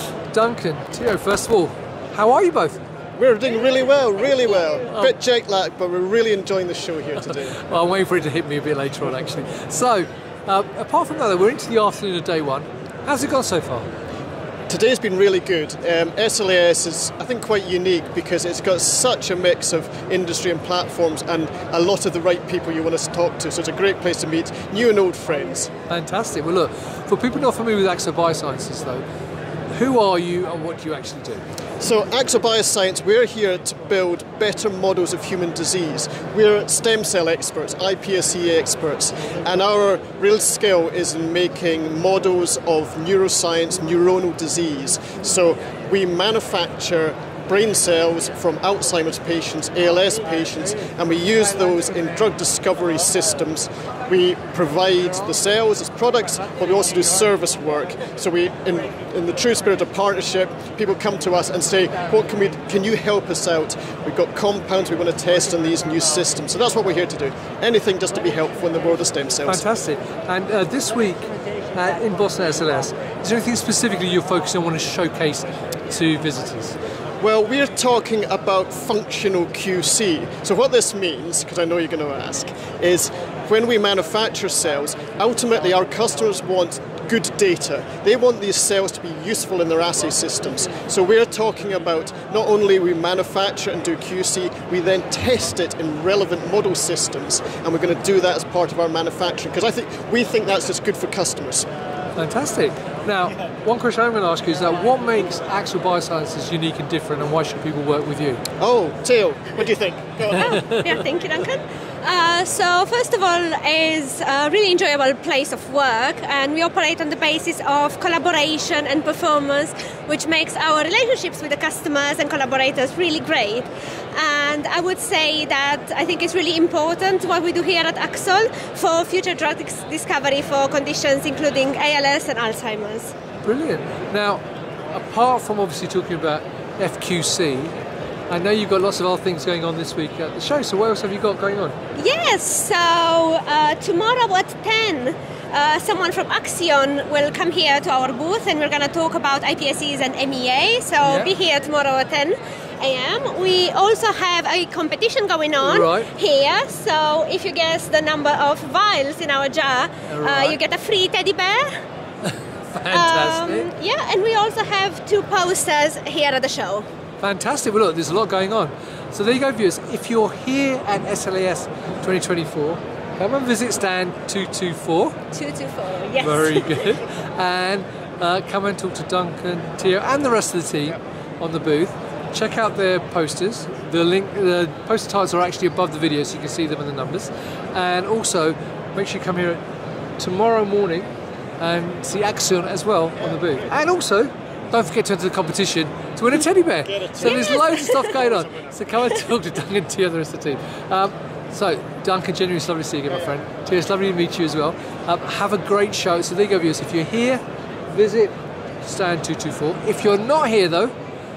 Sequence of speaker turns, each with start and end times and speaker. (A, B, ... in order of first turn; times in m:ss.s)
0:00.3-0:02.8 A
0:03.2-0:07.6 B
0:07.5-0:13.9 A
0:14.7-0:25.7 B
0:25.9-0:29.0 A
0:29.7-0:31.4 A
0:31.8-1:09.6 B
1:09.5-1:16.8 A
1:17.2-1:41.6 B
1:42.2-1:48.4 A
1:48.6-1:50.6 B
1:50.3-2:13.1 C
2:13.4-2:17.7 A
2:18.3-2:21.8 A
2:22.0-2:41.8 C
2:31.0-2:31.3 A
2:35.6-2:36.1 A
2:40.1-2:40.6 A
2:42.7-2:43.7 A
2:42.9-2:46.8 C
2:47.2-2:55.2 A
2:55.3-2:56.9 C
2:56.2-3:09.6 A
3:10.2-3:30.9 A
3:16.8-3:17.4 B
3:17.2-3:18.1 C
3:18.4-3:18.7 B